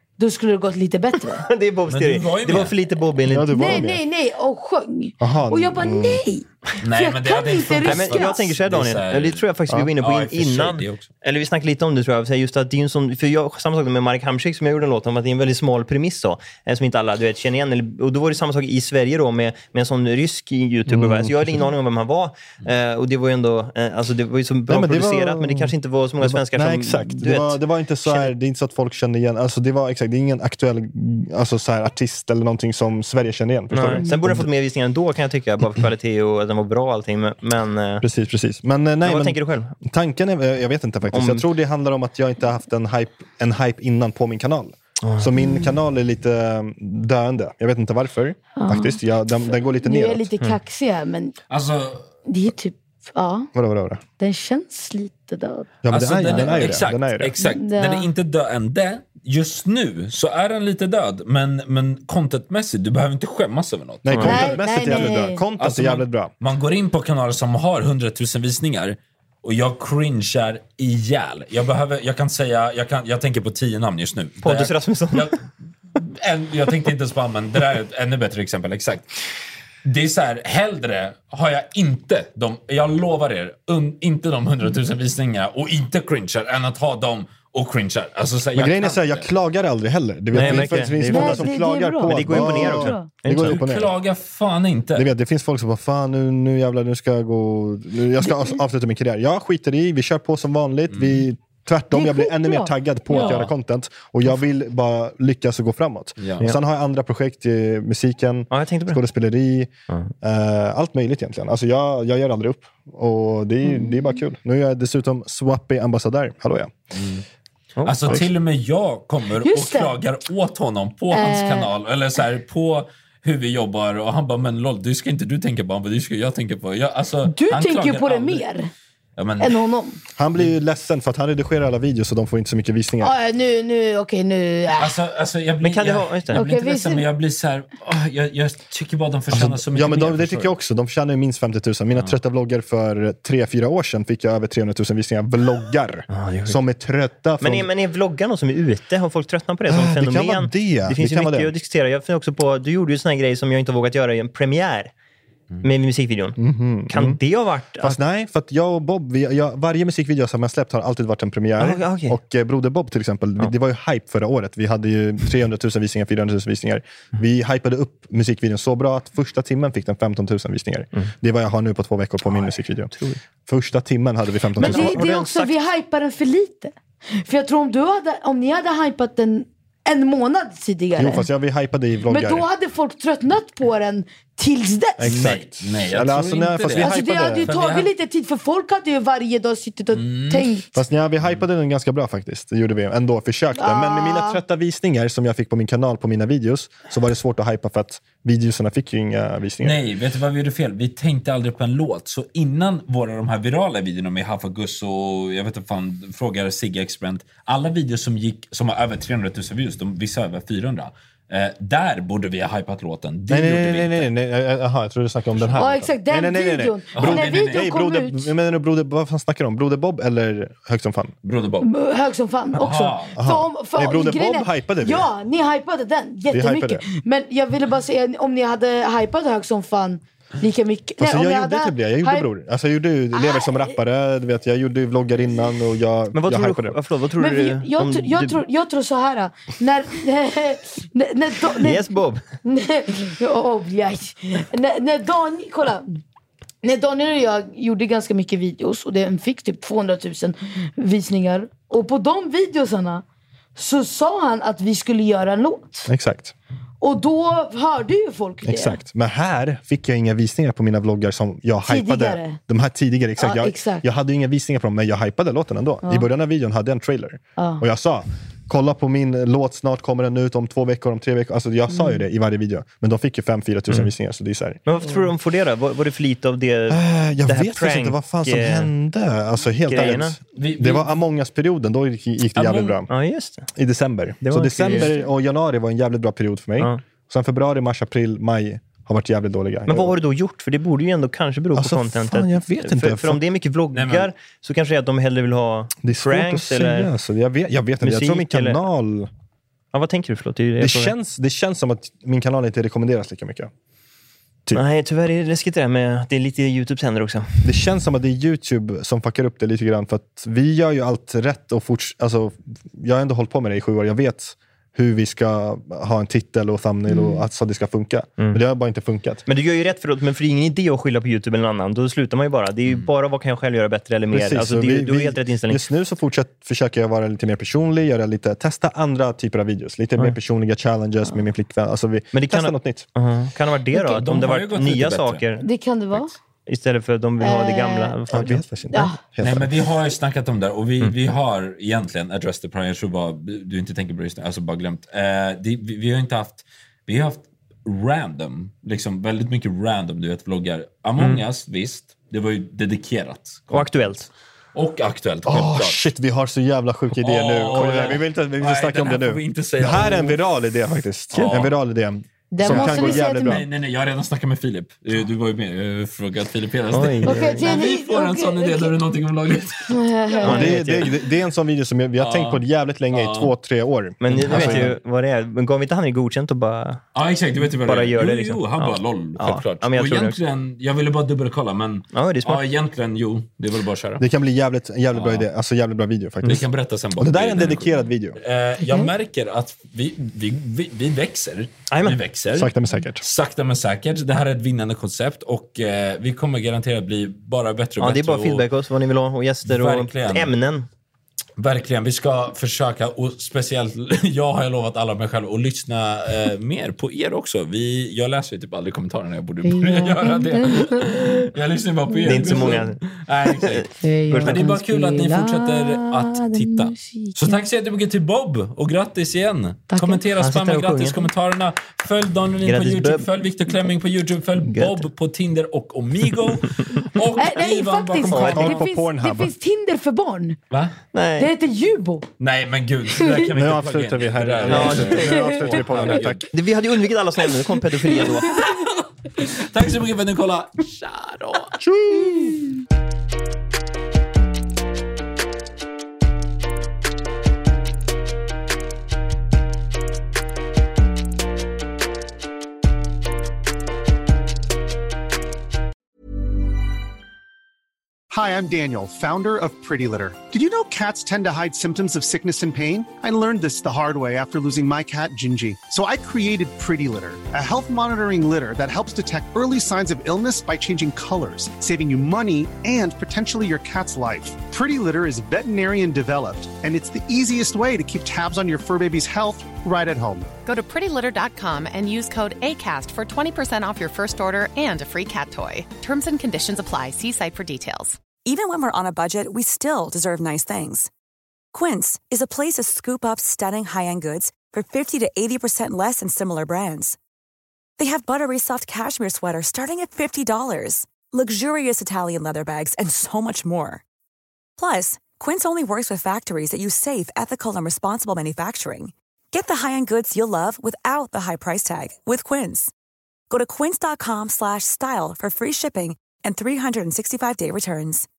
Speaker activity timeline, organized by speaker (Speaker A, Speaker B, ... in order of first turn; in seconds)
Speaker A: 0.2-1.4, 3.5-8.4, 45.4-45.8, 48.6-49.0, 49.8-51.3, 52.3-53.5, 54.2-55.7, 57.4-58.1, 64.2-65.4, 91.0-93.1, 101.9-103.4, 119.4-119.9, 121.1-121.7, 127.3-128.7, 129.4-130.0, 133.0-134.9, 136.3-137.0, 174.6-181.3, 182.1-185.1, 186.8-190.7, 193.6-194.4, 215.6-218.3, 221.6-232.3, 233.1-233.7, 237.2-241.8, 242.4-246.0, 246.6-253.0, 253.6-255.9, 256.8-258.8, 261.6-262.4, 263.2-263.8, 267.4-267.6, 271.7-272.0, 316.9-317.2, 333.7-334.0, 335.4-336.1, 337.2-338.0, 338.7-339.0, 362.3-363.4, 367.1-368.7, 369.7-370.6, 409.4-411.3, 411.9-412.4, 413.8-417.4, 419.7-420.0, 427.2-430.4, 431.2-432.1, 433.0-433.3, 434.9-435.4
Speaker B: 1.4-3.9, 7.9-28.3, 33.7-38.1, 39.0-39.7, 41.1-41.5, 64.1-64.5, 74.4-75.3, 90.3-91.5, 92.0-93.6, 108.5-109.0, 117.8-118.2, 135.6-136.4, 146.1-146.6, 147.4-154.9, 155.6-158.0, 161.6-162.2, 172.3-173.2, 174.6-175.5, 236.1-238.4, 241.5-242.2, 274.7-278.7, 279.7-280.2, 282.9-283.5, 284.2-285.0, 289.7-296.9, 297.8-298.6, 299.7-300.9, 304.5-307.5, 319.3-325.6, 332.1-335.4, 336.5-338.4, 351.0-351.2, 353.5-354.1, 357.6-357.9, 366.7-367.4, 370.2-370.9, 374.0-376.8, 377.4-380.2, 381.9-382.4, 391.7-392.0, 397.8-400.7, 412.1-412.8, 413.4-414.6, 420.2-421.1, 422.4-423.1, 424.4-424.9, 430.9-431.3, 434.4-435.1, 436.3-438.4
Speaker C: 1.9-2.8, 6.8-11.1, 51.5-52.1, 55.9-65.0, 65.6-75.4, 76.0-79.1, 79.8-89.3, 93.4-95.1, 100.9-101.2, 103.1-103.5, 106.2-106.5, 116.9-117.2, 117.8-128.4, 129.2-129.6, 134.8-140.5, 185.0-187.9, 189.9-190.5, 199.6-214.1, 215.3-215.6, 216.9-217.7, 221.2-221.7, 222.6-223.2, 280.4-280.9, 282.4-282.8, 293.7-294.1, 334.0-335.2, 339.2-353.9, 354.5-355.8, 357.0-360.2, 361.1-361.6, 362.4-370.2, 372.0-373.3, 374.1-374.8, 376.9-384.0, 384.9-385.3, 386.2-398.4, 399.4-400.3, 401.4-413.7, 414.2-428.6, 430.5-430.8, 432.2-436.3, 438.0-441.6
Speaker D: 3.3-4.0, 5.2-6.2, 20.9-21.7, 24.7-34.5, 38.0-50.3, 53.5-54.0, 55.8-57.3, 64.0-66.3, 88.5-94.0, 95.0-109.7, 110.2-116.7, 130.2-133.1, 139.3-147.7, 149.7-151.5, 156.4-157.2, 157.8-172.9, 173.5-175.0, 181.0-182.5, 185.0-187.5, 190.7-199.8, 213.3-221.2, 223.2-225.1, 226.3-226.9, 231.0-236.8, 255.9-256.3, 258.4-274.6, 276.7-282.9, 283.5-290.0, 291.6-293.2, 295.8-299.1, 300.6-303.5, 307.4-319.2, 324.1-332.9, 338.1-339.6, 355.3-363.4, 370.2-374.8, 384.0-386.5, 387.0-388.2, 392.3-393.0, 428.0-429.3, 433.3-436.3, 441.6-442.4
Speaker E: 458.1-480.3
Speaker F: 480.4-488.0
Speaker G: 488.2-490.9, 491.5-497.0, 497.8-503.8, 504.6-512.7, 513.3-518.1